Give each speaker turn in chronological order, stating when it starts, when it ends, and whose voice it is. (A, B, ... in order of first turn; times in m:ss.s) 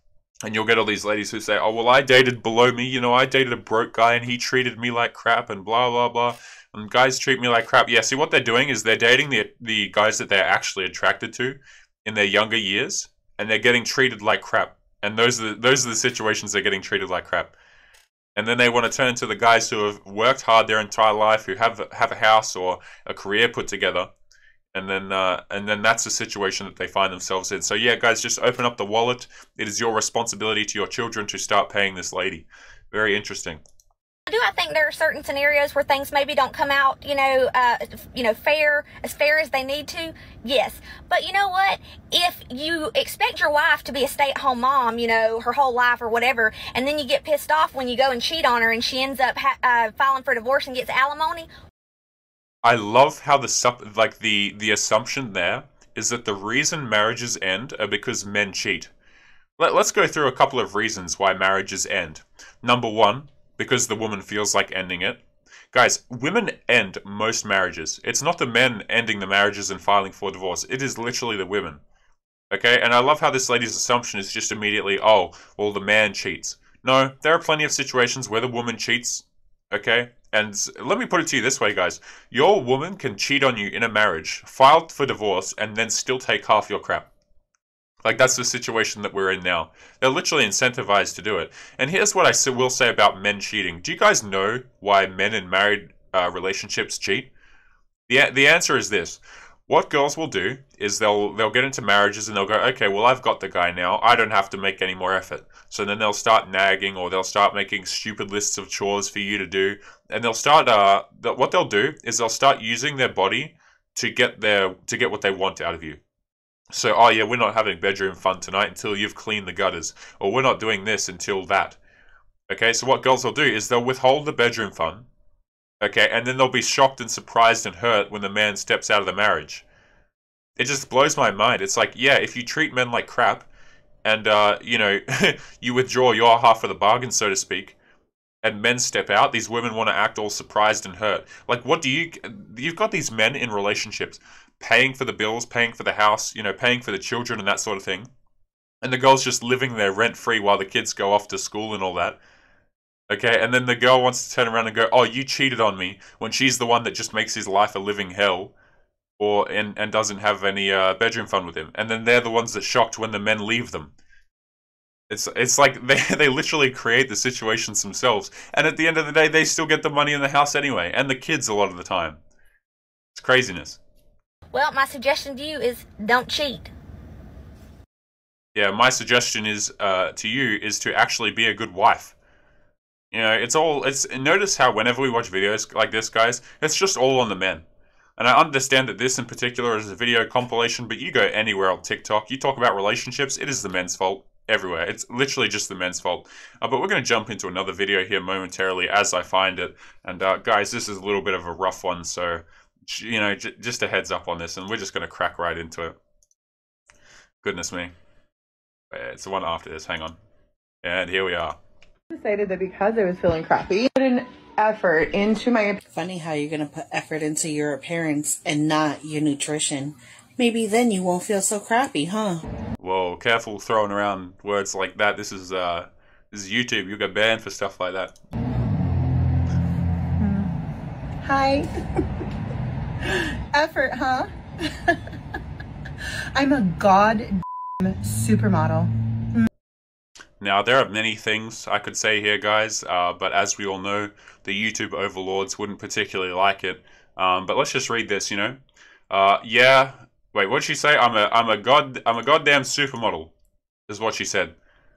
0:00.4-0:17.5 A
0:18.4-0:24.1 A
0:24.7-0:33.6 A
0:34.3-0:51.5 B
0:52.6-0:58.9 A
0:59.6-1:05.2 A
1:05.7-1:11.8 A
1:12.5-1:27.1 A
1:28.0-1:37.3 A
1:38.1-1:56.0 A
1:56.7-2:01.8 A
2:02.5-2:05.0 A
2:05.8-2:09.6 A
2:10.6-2:13.5 A
2:14.0-2:17.7 A
2:18.4-2:28.1 A
2:28.8-2:32.2 A
2:33.1-2:38.5 A
2:39.2-2:43.9 A
2:45.1-2:52.2 A
2:53.1-2:53.8 A
2:54.5-2:56.7 B
2:58.5-3:02.1 A
3:03.1-3:07.6 A
3:08.2-3:25.9 A
3:27.4-3:27.9 A
3:28.9-3:30.2 A
3:30.8-3:31.5 A
3:32.1-3:35.8 C
3:35.8-3:42.4 D
3:42.8-3:48.1 A
3:50.2-3:50.5 C
3:51.2-3:52.0 C
3:53.0-3:55.0 C
3:56.3-3:59.5 C
4:00.4-4:08.6 A
4:09.1-4:13.3 A
4:13.9-4:14.5 A